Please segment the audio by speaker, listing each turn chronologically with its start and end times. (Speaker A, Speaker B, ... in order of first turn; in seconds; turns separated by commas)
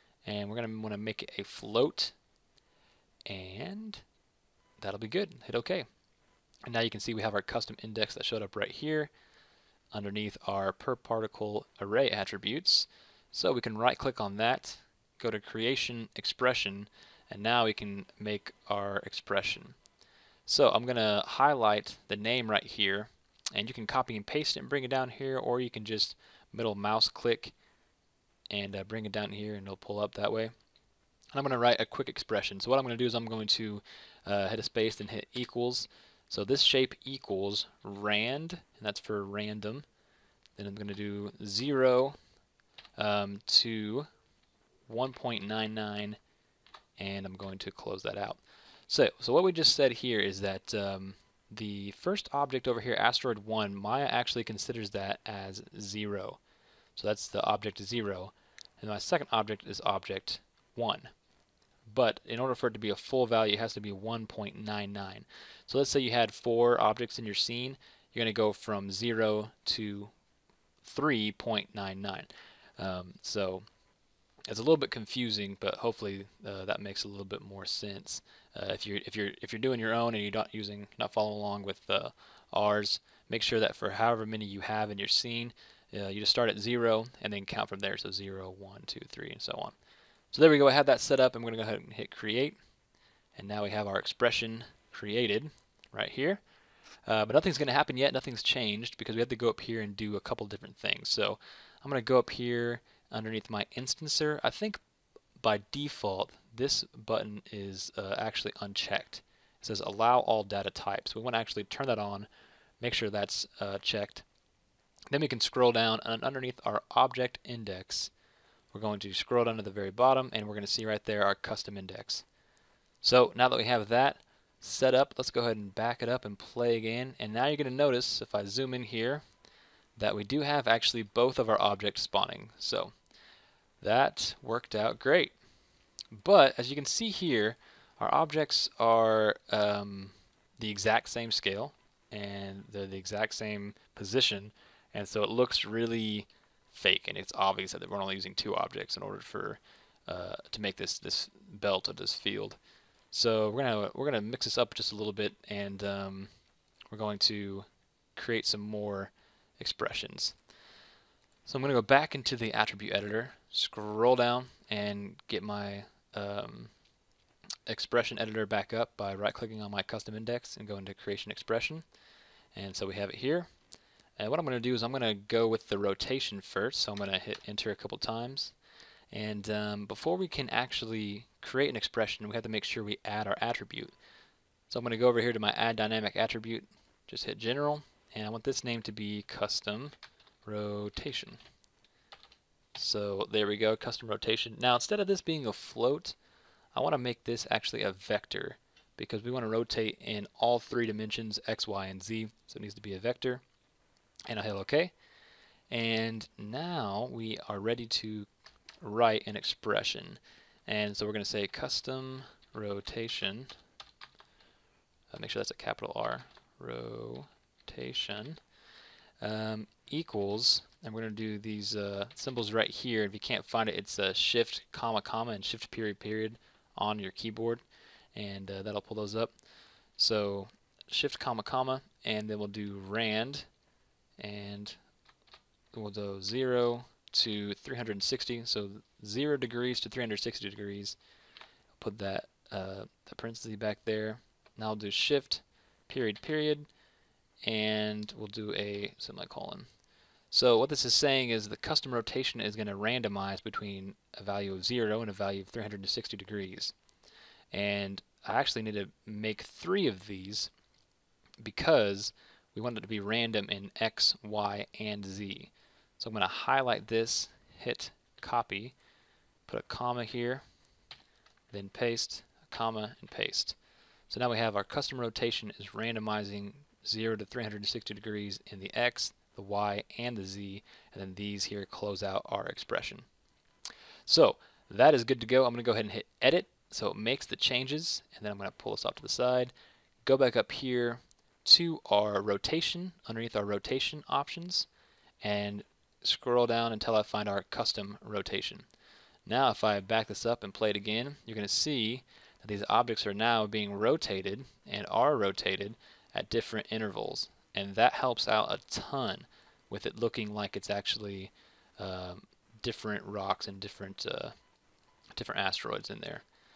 Speaker A: 0.2-2.1, Speaker A: 3.3-4.0, Speaker A: 4.8-5.9, Speaker A: 6.7-9.1, Speaker A: 9.9-19.8, Speaker A: 20.5-27.6, Speaker A: 28.5-30.5, Speaker A: 31.3-39.9, Speaker A: 40.6-42.2, Speaker A: 43.0-44.1, Speaker A: 44.9-46.2, Speaker A: 47.0-56.4, Speaker A: 57.0-61.1, Speaker A: 61.9-70.1, Speaker A: 70.8-73.6, Speaker A: 74.5-89.8, Speaker A: 90.3-92.6, Speaker A: 93.3-96.4, Speaker A: 97.1-104.8, Speaker A: 105.4-112.3, Speaker A: 112.8-114.2, Speaker A: 115.1-118.1, Speaker A: 118.7-122.3, Speaker A: 123.0-129.2, Speaker A: 130.0-132.9, Speaker A: 133.8-135.3, Speaker A: 136.1-152.6, Speaker A: 153.1-156.3, Speaker A: 156.9-160.4, Speaker A: 161.5-166.7, Speaker A: 167.7-171.8, Speaker A: 172.5-173.5, Speaker A: 174.2-178.5, Speaker A: 179.1-183.9, Speaker A: 184.7-191.4, Speaker A: 192.8-196.2, Speaker A: 196.8-203.4, Speaker A: 204.3-204.9, Speaker A: 205.7-208.3, Speaker A: 208.8-213.5, Speaker A: 215.1-218.4, Speaker A: 219.2-229.3, Speaker A: 230.0-233.5, Speaker A: 234.2-234.8, Speaker A: 235.7-241.0, Speaker A: 241.8-246.7, Speaker A: 247.4-249.7, Speaker A: 250.3-256.8, Speaker A: 257.5-260.5, Speaker A: 261.4-268.8, Speaker A: 269.5-270.4, Speaker A: 271.5-273.6, Speaker A: 274.1-283.1, Speaker A: 284.1-289.5, Speaker A: 290.0-294.7, Speaker A: 295.2-298.7, Speaker A: 299.3-314.4, Speaker A: 315.1-316.2